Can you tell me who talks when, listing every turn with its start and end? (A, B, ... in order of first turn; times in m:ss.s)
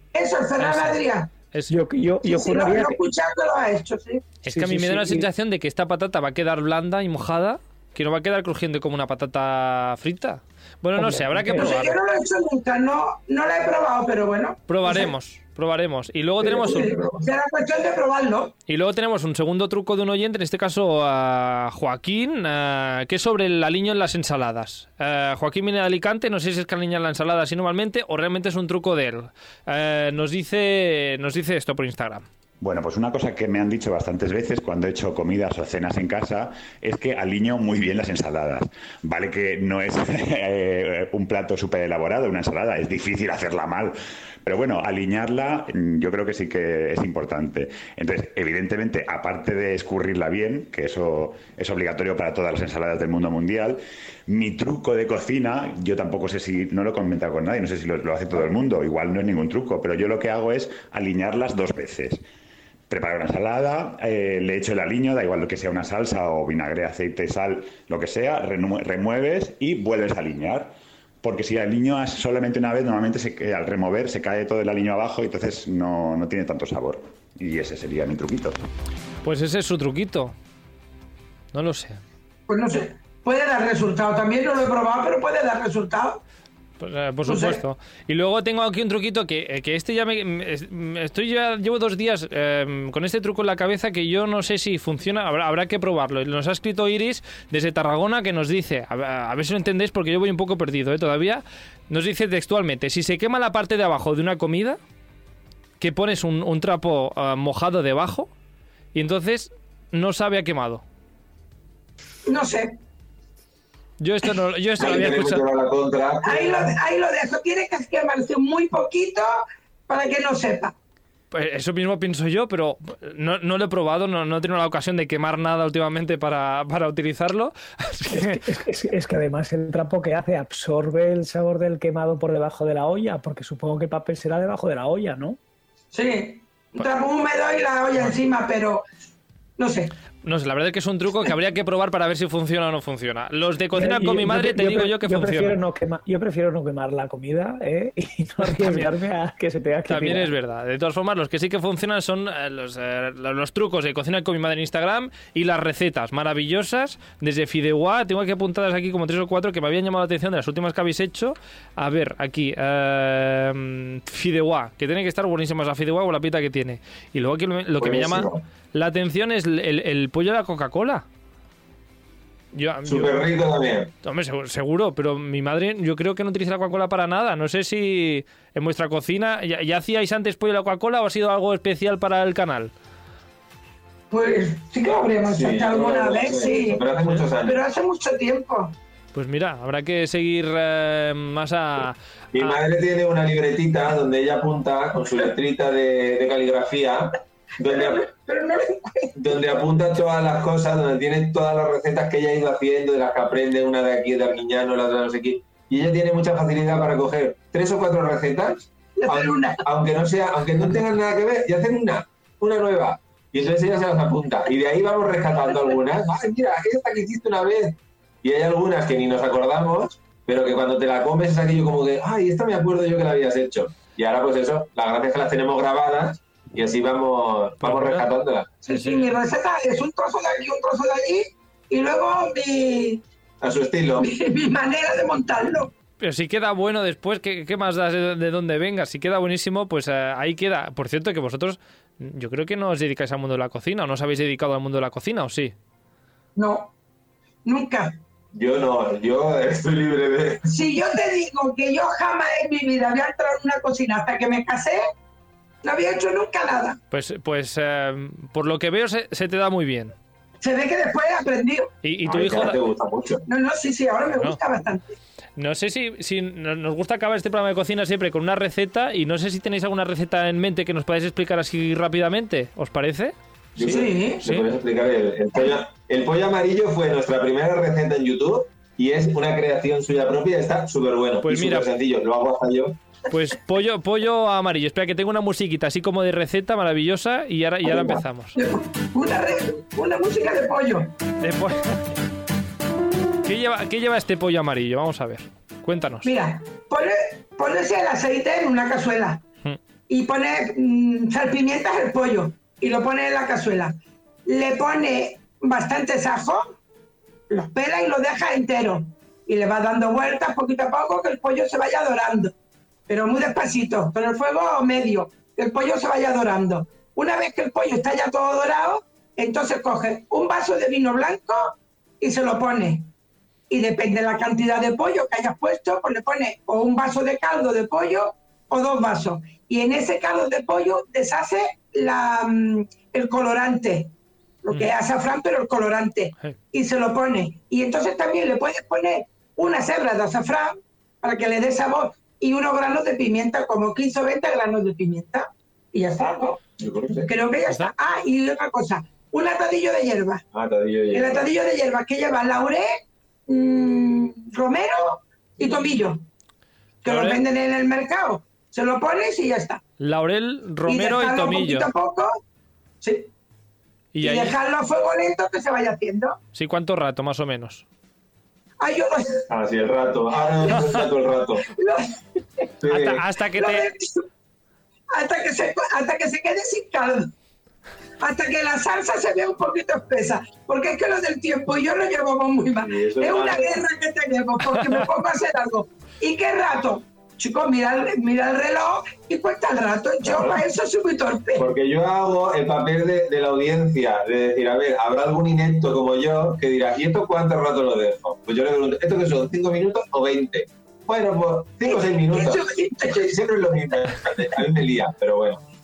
0:00.1-0:01.3 A
0:00.6-0:01.0 B
0:01.7-0:03.0 C
0:02.2-0:04.3 A
0:04.4-0:12.0 B
0:04.5-0:05.3 C
0:11.0-0:11.8 C
0:11.5-0:15.1 A
0:14.7-0:16.9 B
0:16.4-0:17.2 D
0:16.6-0:18.5 A
0:18.7-0:32.2 B
0:32.6-1:02.2 E
1:02.9-1:18.6 E
1:19.2-1:20.4 B
1:21.5-1:22.0 B
1:22.5-1:26.2 A
1:26.8-1:44.8 B
1:27.3-1:27.6 A
1:45.8-1:48.3 B
1:48.9-1:50.8 B
1:52.3-1:52.8 A
1:54.0-1:55.4 B
1:54.8-1:56.7 D
1:56.2-2:00.7 A
2:01.3-2:08.4 B
2:08.1-2:15.4 C
2:15.9-2:18.8 A
2:19.6-2:19.9 A
2:20.2-2:25.6 B
2:23.7-2:30.3 C
2:28.5-2:28.9 B
2:29.9-2:51.0 B
2:47.8-2:48.4 D
2:52.5-2:53.2 B
2:52.9-2:53.9 D
2:54.0-3:02.7 B
3:04.1-3:06.8 A
3:05.3-3:07.6 D
3:07.4-3:08.8 A
3:09.1-3:12.6 B
3:12.3-3:18.1 D
3:17.6-3:19.2 A
3:19.2-3:48.5 D
3:29.0-3:29.6 A
3:47.6-3:48.1 B
3:48.6-3:53.0 A
3:48.7-3:49.0 B
3:53.4-3:54.1 D
3:54.0-3:55.7 A
3:56.0-4:05.6 B
4:06.4-4:06.7 A
4:07.4-4:08.0 A
4:08.3-4:10.5 D
4:10.5-4:14.8 A
4:15.6-4:16.8 A
4:16.9-4:20.0 B
4:20.4-4:21.7 A
4:21.8-4:22.6 B
4:22.1-4:23.2 D
4:23.3-4:25.0 A
4:24.1-4:24.4 B
4:25.4-4:34.5 B
4:33.6-4:42.8 D
4:33.6-4:34.2 A
4:41.2-4:41.7 B
4:43.1-4:48.4 B
4:48.4-4:50.9 A
4:51.2-4:51.9 B
4:53.2-4:56.1 B
4:56.0-4:59.2 A
4:59.9-5:06.6 A
5:07.3-5:12.3 A
5:12.9-5:22.9 A
5:23.5-5:33.9 A
5:34.4-5:46.4 A
5:46.6-5:47.1 D
5:47.1-5:50.2 A
5:50.3-5:51.3 D
5:50.9-5:56.0 A
5:56.8-5:59.6 A
5:56.9-5:57.2 B
5:59.8-6:01.7 B
6:00.6-6:02.2 A
6:02.8-6:03.1 A
6:03.9-6:04.4 B
6:04.0-6:06.2 A
6:06.3-6:07.6 B
6:08.6-6:09.3 A
6:09.3-6:11.5 D
6:11.5-6:12.5 A
6:12.6-6:13.0 D
6:12.7-6:13.7 B
6:13.3-6:14.1 A
6:14.9-6:17.1 A
6:18.0-6:31.5 A
6:22.6-6:23.6 D
6:30.0-6:30.4 D
6:31.4-6:45.4 D
6:41.7-6:43.2 A